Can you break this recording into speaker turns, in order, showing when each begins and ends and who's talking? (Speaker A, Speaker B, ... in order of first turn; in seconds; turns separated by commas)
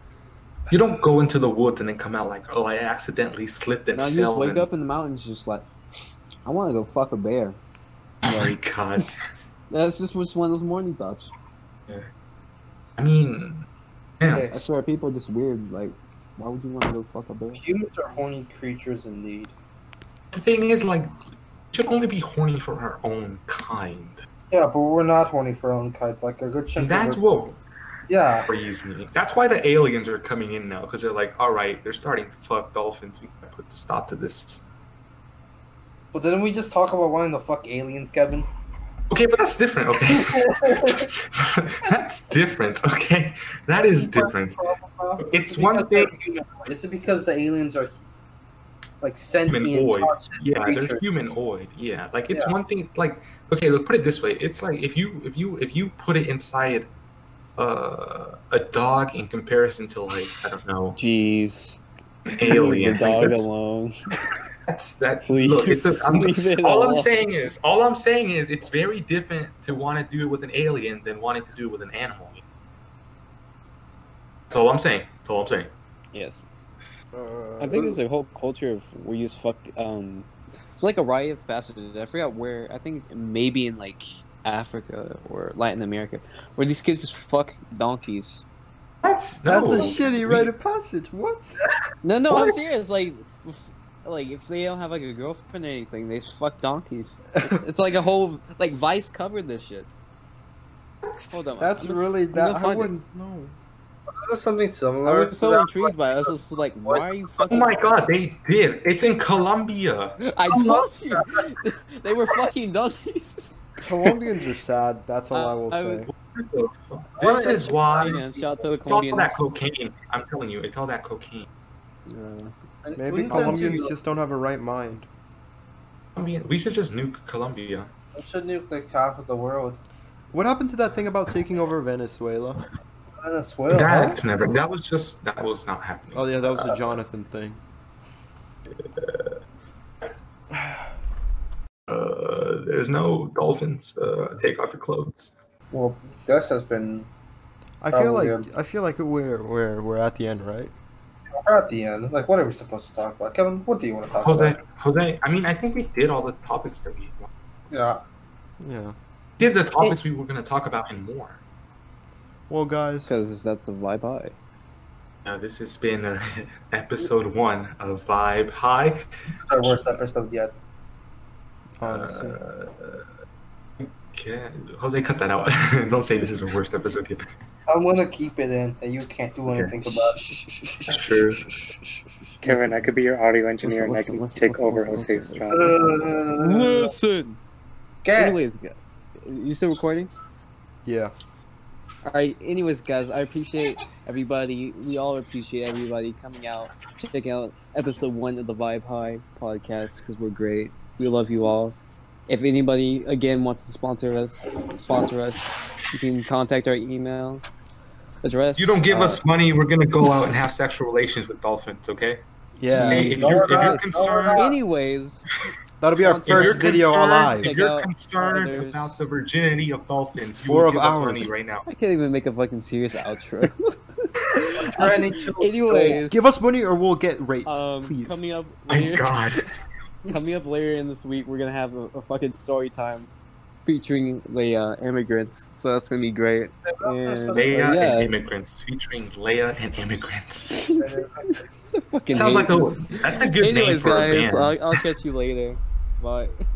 Speaker A: 0.7-4.7, Speaker B: 3.9-5.7, Speaker B: 6.5-7.6, Speaker A: 8.2-9.1, Speaker B: 8.2-9.0, Speaker B: 9.7-11.3, Speaker A: 13.0-13.7, Speaker A: 14.2-14.6, Speaker B: 14.2-17.6, Speaker C: 17.5-19.5, Speaker A: 20.3-21.1, Speaker A: 21.7-24.2, Speaker C: 24.5-27.2, Speaker A: 26.8-27.6, Speaker C: 28.1-28.5, Speaker A: 28.5-34.6, Speaker C: 36.1-38.5, Speaker A: 39.1-44.6, Speaker C: 40.1-41.1, Speaker C: 43.9-47.9, Speaker A: 45.2-46.1, Speaker C: 49.0-51.0, Speaker A: 49.5-56.9, Speaker A: 57.6-61.0, Speaker B: 61.0-61.8, Speaker A: 62.3-63.5, Speaker B: 62.3-64.1, Speaker A: 64.7-72.4, Speaker B: 65.2-67.1, Speaker A: 74.5-75.7, Speaker B: 76.1-76.4, Speaker C: 77.1-78.0, Speaker B: 77.6-88.4, Speaker A: 89.0-90.5, Speaker D: 89.5-91.6, Speaker B: 92.0-99.9, Speaker D: 92.3-92.7, Speaker A: 101.0-101.4, Speaker B: 101.3-102.9, Speaker D: 101.6-103.5, Speaker C: 104.1-107.1, Speaker B: 105.0-108.0, Speaker A: 107.4-110.2, Speaker B: 110.2-113.7, Speaker C: 110.5-111.5, Speaker D: 113.8-116.1, Speaker B: 115.3-116.1, Speaker A: 116.1-118.2, Speaker C: 117.2-118.7, Speaker B: 117.3-119.5, Speaker A: 118.9-121.5, Speaker B: 122.1-122.5, Speaker C: 122.8-124.0, Speaker D: 123.0-125.1, Speaker B: 123.3-123.7, Speaker A: 126.2-127.9, Speaker C: 128.1-129.8, Speaker D: 130.3-132.6, Speaker C: 133.2-134.2, Speaker A: 133.7-136.8, Speaker D: 136.1-137.6, Speaker A: 138.7-139.4, Speaker D: 140.5-140.8, Speaker A: 141.9-145.3, Speaker C: 145.7-147.1, Speaker D: 147.8-150.7, Speaker C: 147.9-148.5, Speaker C: 151.3-154.6, Speaker A: 154.2-157.3, Speaker C: 157.7-158.0, Speaker D: 158.6-158.9, Speaker A: 159.4-161.4, Speaker D: 162.5-163.1, Speaker B: 163.1-164.3, Speaker A: 165.2-169.8, Speaker C: 169.4-170.5, Speaker D: 171.8-172.4, Speaker A: 171.8-173.1, Speaker A: 173.8-177.2, Speaker C: 177.7-180.2, Speaker A: 179.5-179.7, Speaker B: 179.8-182.9, Speaker A: 180.9-181.5, Speaker E: 182.4-185.7, Speaker B: 183.6-187.4, Speaker C: 185.5-186.9, Speaker C: 188.0-188.4, Speaker B: 188.2-190.1, Speaker D: 190.8-191.1, Speaker B: 192.0-201.8, Speaker B: 202.3-207.4, Speaker B: 208.2-209.2, Speaker A: 208.5-212.2, Speaker D: 212.6-213.2, Speaker B: 212.7-219.1, Speaker A: 212.8-214.5, Speaker C: 212.9-214.5, Speaker D: 215.8-217.6, Speaker A: 216.3-221.7, Speaker D: 220.4-221.3, Speaker B: 221.7-226.2, Speaker C: 224.4-226.0, Speaker D: 226.1-228.2, Speaker B: 227.4-229.4, Speaker A: 228.7-229.5, Speaker B: 230.1-233.1, Speaker B: 233.6-238.1, Speaker C: 236.6-237.8, Speaker A: 237.3-240.6, Speaker B: 240.5-246.4, Speaker C: 240.8-241.8, Speaker A: 242.1-244.9